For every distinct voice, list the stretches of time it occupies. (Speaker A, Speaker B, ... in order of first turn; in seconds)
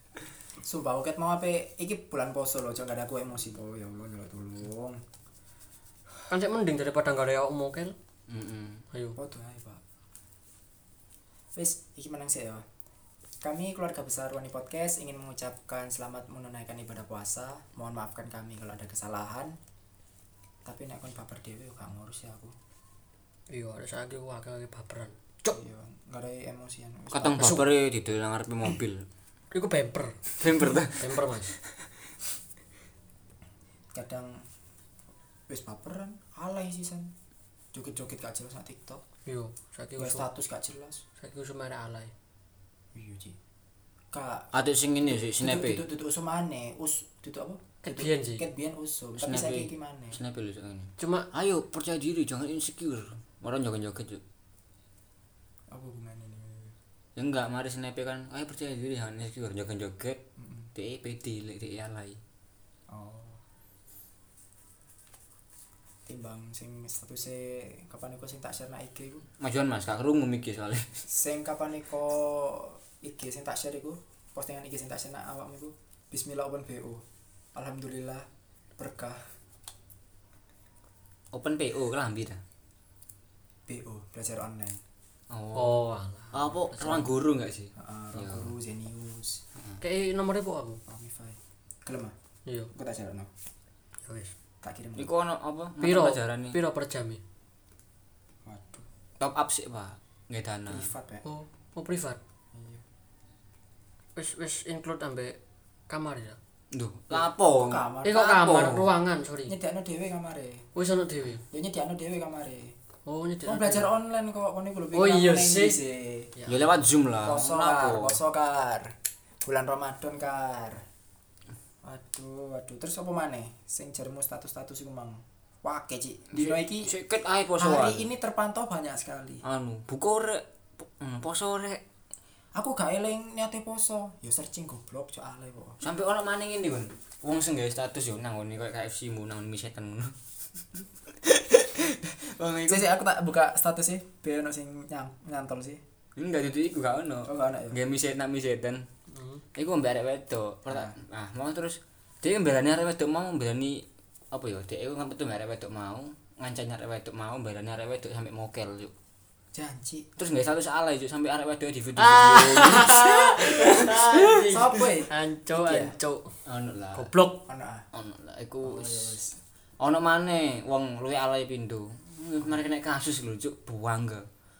Speaker A: 0.6-5.0, 9.2-9.8, 11.5-12.6, 13.4-19.6, 20.6-22.5, 25.5-27.6, 33.9-34.4, 35.5-37.1, 37.7-39.0, 40.0-41.0, 42.9-43.4, 44.1-44.5, 45.1-50.2, 55.7-56.8, 60.4-60.7, 62.9-63.4, 66.0-69.2, 71.1-77.0, 77.5-79.3, 83.7-84.8, 87.8-89.4, 90.9-92.1, 92.7-93.3, 94.6-95.1, 98.5-98.9, 100.7-101.2, 102.5-102.8, 107.1-108.4, 109.5-110.7, 111.5-112.8, 113.5-116.3, 117.2-120.8, 121.8-126.9, 127.5-129.4, 132.5-135.8, 142.7-145.8, 147.2-147.8, 150.7-151.0, 159.5-160.1, 164.4-165.9, 167.5-167.8, 168.6-169.3
Speaker B: 6.3-8.0, 8.9-9.2, 23.5-25.6, 27.4-27.7, 29.5-30.3, 31.0-31.5, 39.2-40.3, 41.2-42.1, 47.8-48.4, 51.0-51.3, 85.5-87.1, 89.8-90.8, 92.5-92.7, 94.0-94.3, 95.8-97.2, 101.2-102.2, 104.2-105.4, 105.9-106.4, 108.0-109.5, 110.7-111.4, 113.0-113.9, 114.9-115.8, 116.3-116.7, 149.1-149.4, 162.0-166.3, 166.9-167.4
Speaker C: 8.3-8.8, 27.1-29.0, 30.4-31.1, 44.5-45.8, 49.2-54.2, 57.1-60.2, 60.7-62.2, 69.4-70.9, 81.3-82.4, 85.3-88.5, 95.0-96.6, 99.2-100.9, 106.7-108.9, 116.5-118.2, 126.3-128.1, 129.4-131.8, 135.8-140.2, 140.8-142.9, 146.2-148.8, 149.5-158.9, 160.2-164.5, 166.4-167.1, 167.9-169.2, 169.8-174.2